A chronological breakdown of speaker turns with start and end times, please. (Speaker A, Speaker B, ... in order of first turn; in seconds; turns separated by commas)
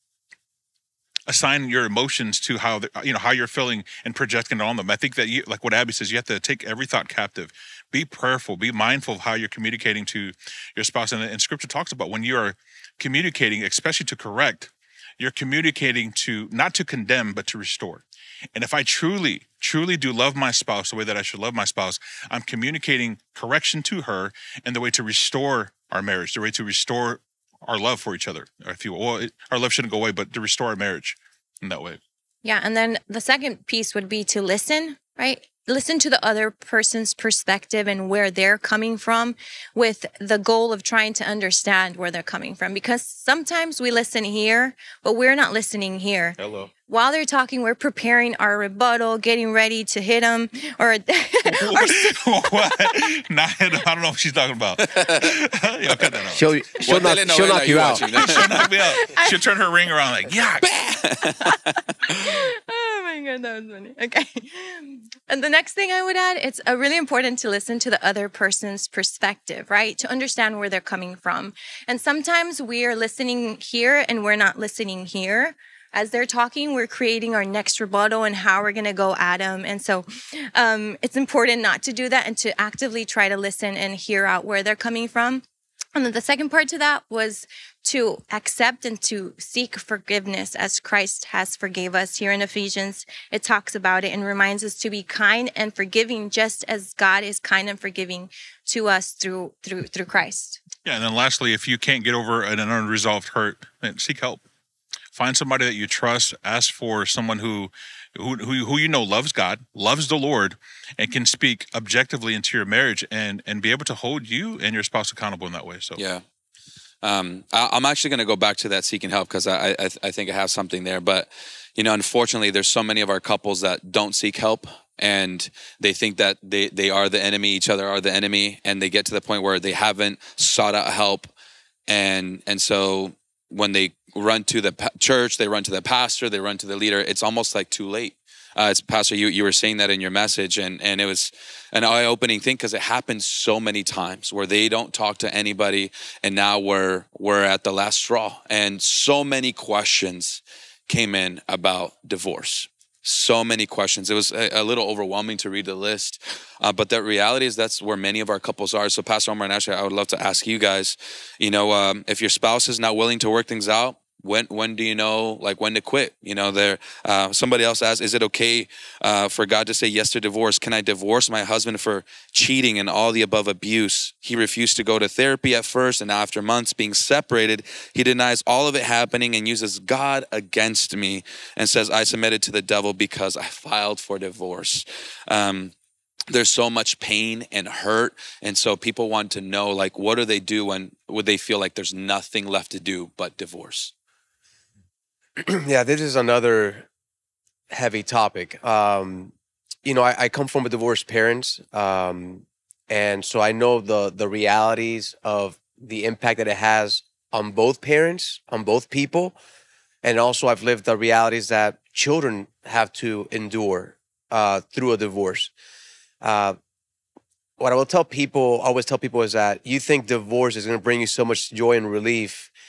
Speaker A: 1.3-18.0, Speaker A: 18.5-32.0, Speaker B: 32.4-53.0, Speaker A: 46.4-46.7, Speaker A: 51.6-56.5, Speaker C: 54.8-55.4, Speaker D: 56.3-58.0, Speaker C: 56.8-58.7, Speaker A: 57.7-60.8, Speaker B: 58.3-59.4, Speaker C: 60.6-62.2, Speaker B: 62.2-100.6, Speaker A: 100.8-104.4, Speaker A: 105.1-116.0, Speaker C: 116.0-116.2, Speaker C: 117.0-131.3, Speaker C: 131.9-185.7, Speaker C: 186.3-193.9, Speaker D: 195.4-196.8, Speaker D: 197.7-199.3, Speaker D: 199.8-209.4, Speaker D: 210.0-215.5, Speaker D: 216.2-216.6, Speaker D: 217.6-222.5